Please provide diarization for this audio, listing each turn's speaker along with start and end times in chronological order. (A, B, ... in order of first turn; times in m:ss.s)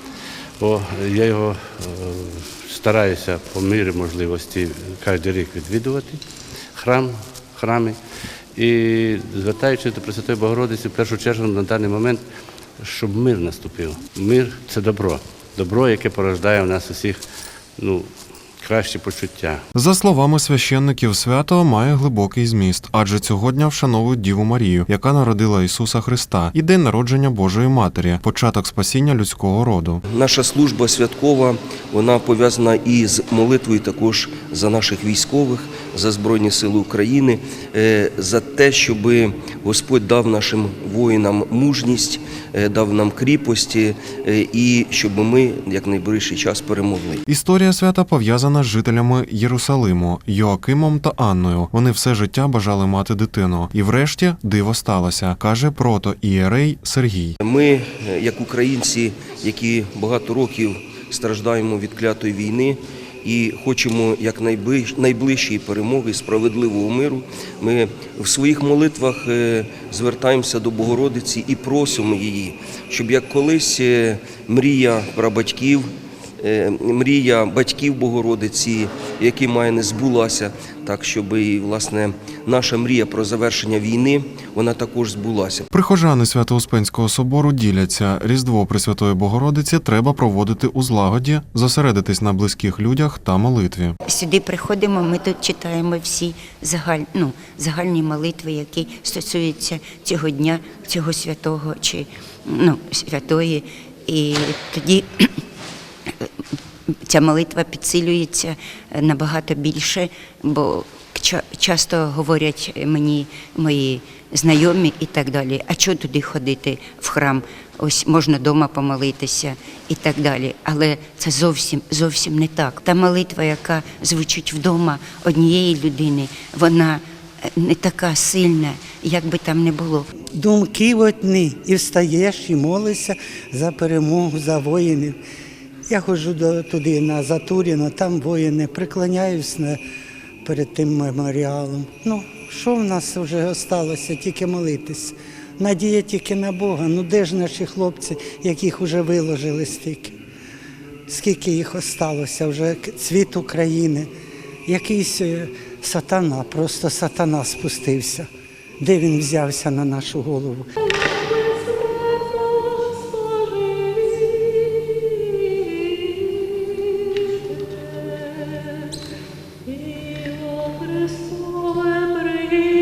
0:00.6-0:06.2 A
0:06.8-0:08.0 A
0:08.6-0:12.2 A
0:12.8-0:17.2 A
0:17.8-0:18.1 A
0:18.6-0:19.6 A
0:19.7-0:30.0 B
0:30.1-0:47.2 C
0:47.3-0:57.4 B
0:57.4-1:15.9 C
1:16.4-1:25.6 C
1:25.7-1:33.9 B
1:34.1-1:45.3 D
1:47.1-2:07.0 D
2:07.6-2:10.0 D
2:10.4-2:15.2 E
2:15.9-2:19.8 E
2:20.4-2:30.1 E
2:31.1-2:34.1 E
2:34.6-2:38.3 E
2:38.8-2:40.7 E